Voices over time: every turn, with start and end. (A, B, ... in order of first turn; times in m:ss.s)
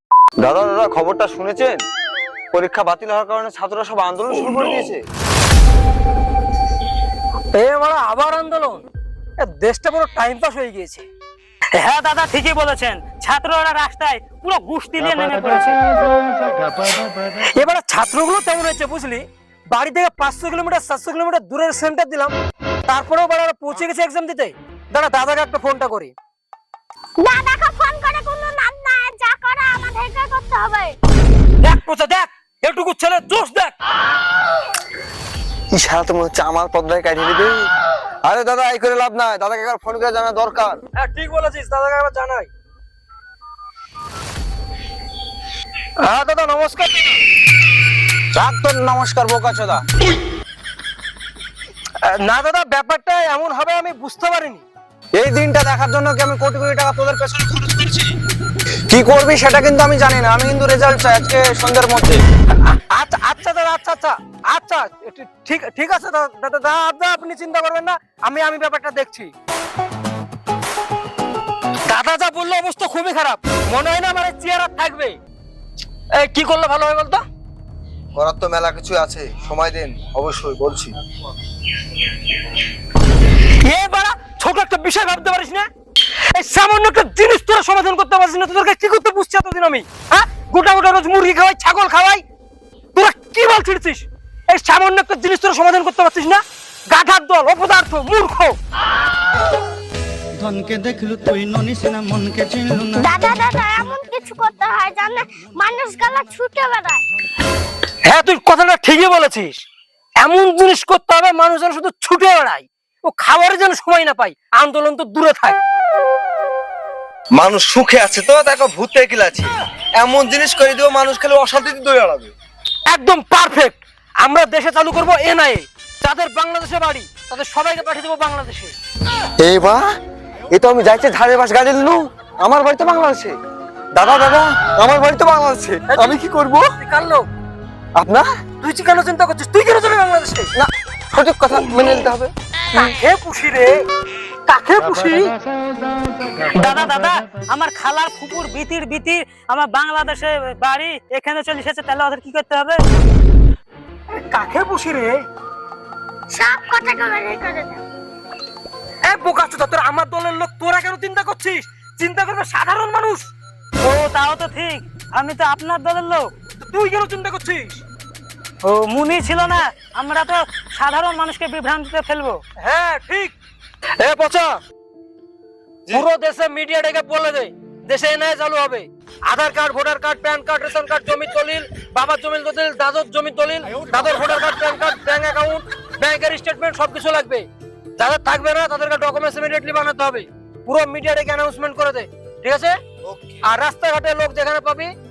0:00.4-0:01.8 A
0:02.5-0:05.0 A
0:07.5-0:08.8 B
0:09.4-0:11.0 B
0:11.7-0:15.8 C
0:16.7-0:22.3 B
0:22.8-0:26.1 B
0:27.2-0:31.0 D
0:31.6-0:33.7 B
0:35.7-0:37.5 A
0:38.2-0:40.8 A
0:41.0-0:42.5 B
0:46.0-0:47.2 B
0:48.3-0:49.8 A
0:52.0-0:54.6 B
0:55.1-0:58.1 A
0:58.9-1:02.2 A
1:02.6-1:09.3 B
1:11.8-1:15.2 B
1:16.1-1:17.2 B
1:18.2-1:20.9 A
1:23.4-1:25.7 B
1:26.3-1:32.2 B
1:33.0-1:38.6 B
1:40.4-1:43.1 E
1:43.0-1:47.0 D
1:48.0-1:49.6 B
1:50.2-1:55.6 B
1:57.3-2:02.3 A
2:02.9-2:08.7 B
2:09.4-2:09.8 A
2:10.5-2:13.3 A
2:13.9-2:16.7 A
2:15.9-2:16.2 B
2:16.8-2:17.3 B
2:18.0-2:18.2 A
2:18.6-2:20.5 B
2:20.6-2:22.3 A
2:22.7-2:23.8 B
2:24.5-2:25.4 B
2:26.4-2:32.8 C
2:34.1-2:35.2 B
2:36.3-2:37.8 D
2:39.0-2:43.3 B
2:43.8-2:46.3 C
2:46.6-2:47.8 B
2:48.6-2:52.4 C
2:52.6-2:53.3 B
2:54.0-2:54.5 B
2:55.9-3:07.4 B
3:08.0-3:12.8 B
3:13.1-3:13.4 A
3:13.4-3:14.9 B